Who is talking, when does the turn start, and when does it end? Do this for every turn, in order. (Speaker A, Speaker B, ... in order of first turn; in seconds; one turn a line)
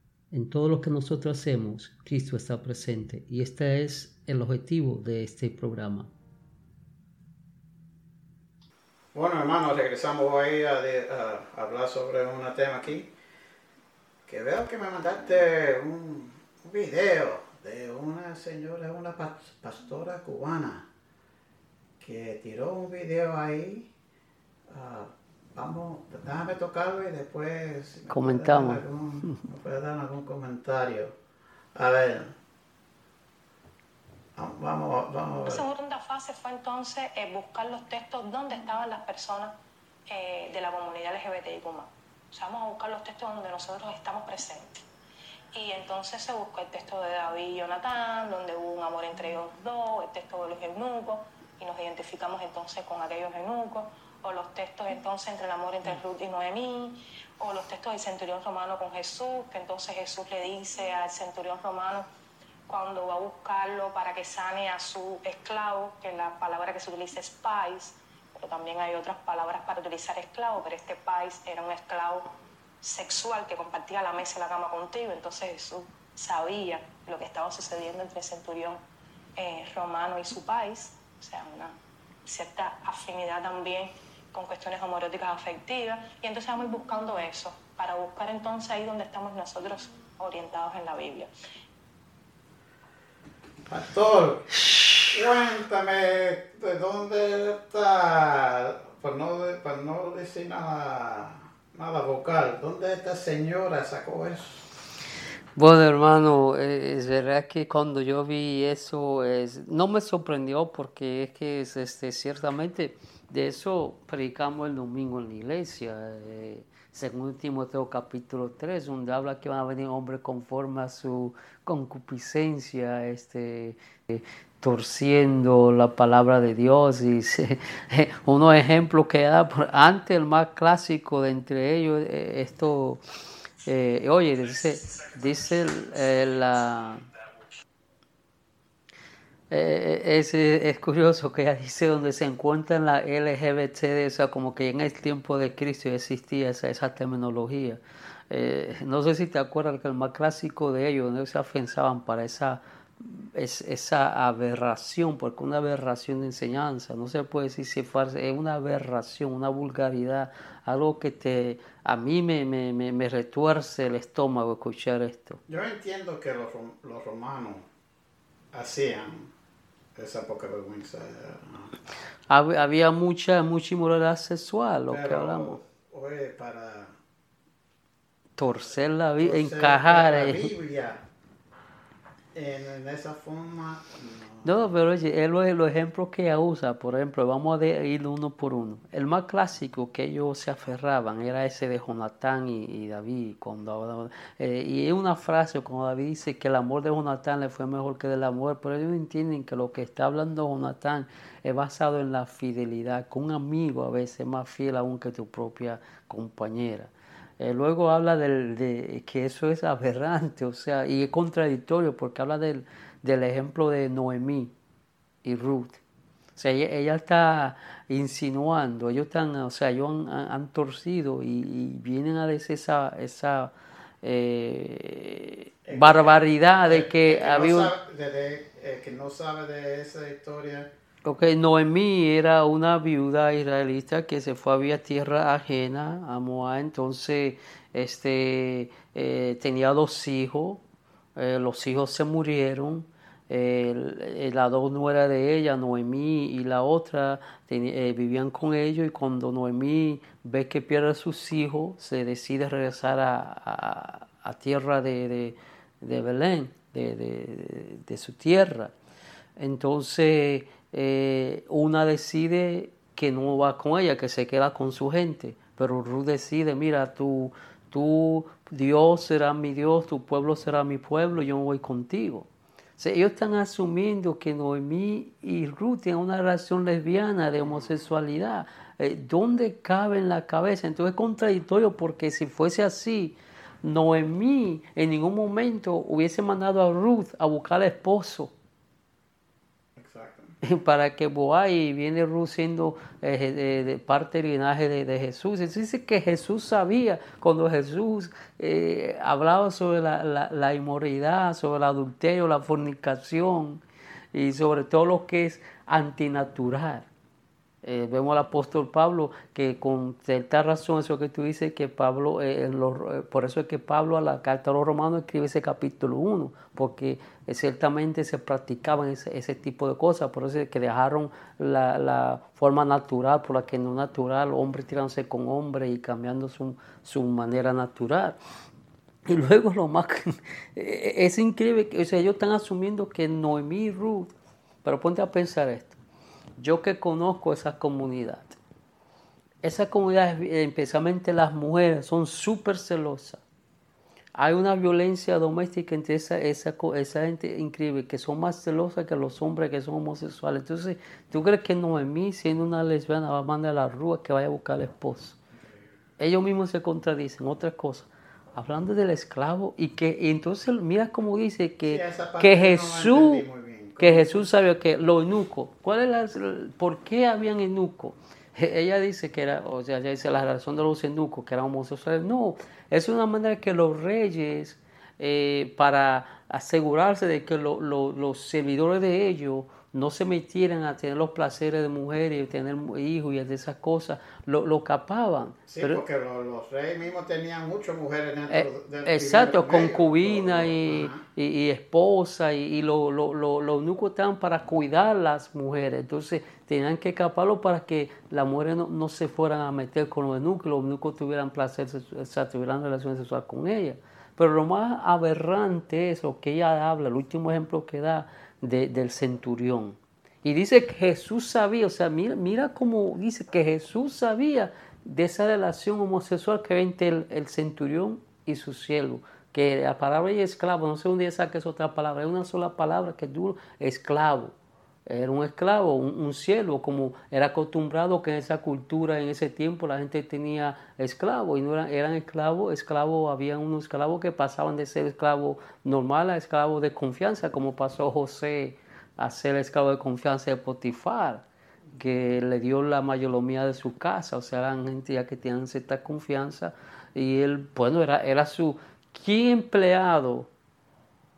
Speaker A: 0.3-6.1
Speaker B: 9.1-13.1
Speaker B: 14.3-20.9
Speaker B: 22.0-23.9
Speaker B: 24.7-31.1
Speaker A: 28.1-29.4
Speaker B: 31.7-32.3
Speaker B: 34.4-35.6
Speaker C: 35.5-39.5
Speaker C: 40.1-44.8
Speaker C: 45.5-62.0
Speaker C: 62.7-78.8
Speaker C: 79.3-91.3
Speaker B: 93.7-104.6
Speaker A: 105.5-133.0
Speaker A: 133.6-137.1
Speaker A: 139.5-165.4
Speaker B: 165.5-167.7
Speaker B: 168.5-169.3
Speaker B: 169.9-171.7
Speaker A: 172.3-175.6
Speaker B: 174.9-176.9
Speaker A: 178.4-180.5
Speaker B: 179.2-181.0
Speaker B: 182.3-184.6
Speaker A: 184.4-214.5
Speaker A: 215.2-215.8
Speaker A: 216.3-227.7
Speaker B: 225.6-230.7
Speaker A: 231.0-240.6
Speaker A: 241.2-258.7
Speaker A: 259.4-288.3
Speaker B: 289.8-290.3
Speaker A: 290.4-306.9
Speaker A: 307.6-328.2
Speaker A: 329.1-334.1
Speaker A: 334.6-335.8
Speaker A: 336.4-338.4
Speaker A: 339.4-343.2
Speaker A: 344.1-355.2
Speaker A: 356.0-363.2
Speaker B: 361.6-364.2
Speaker A: 363.8-385.8
Speaker B: 385.5-391.0
Speaker A: 388.3-424.3
Speaker A: 424.9-441.2
Speaker A: 441.8-450.3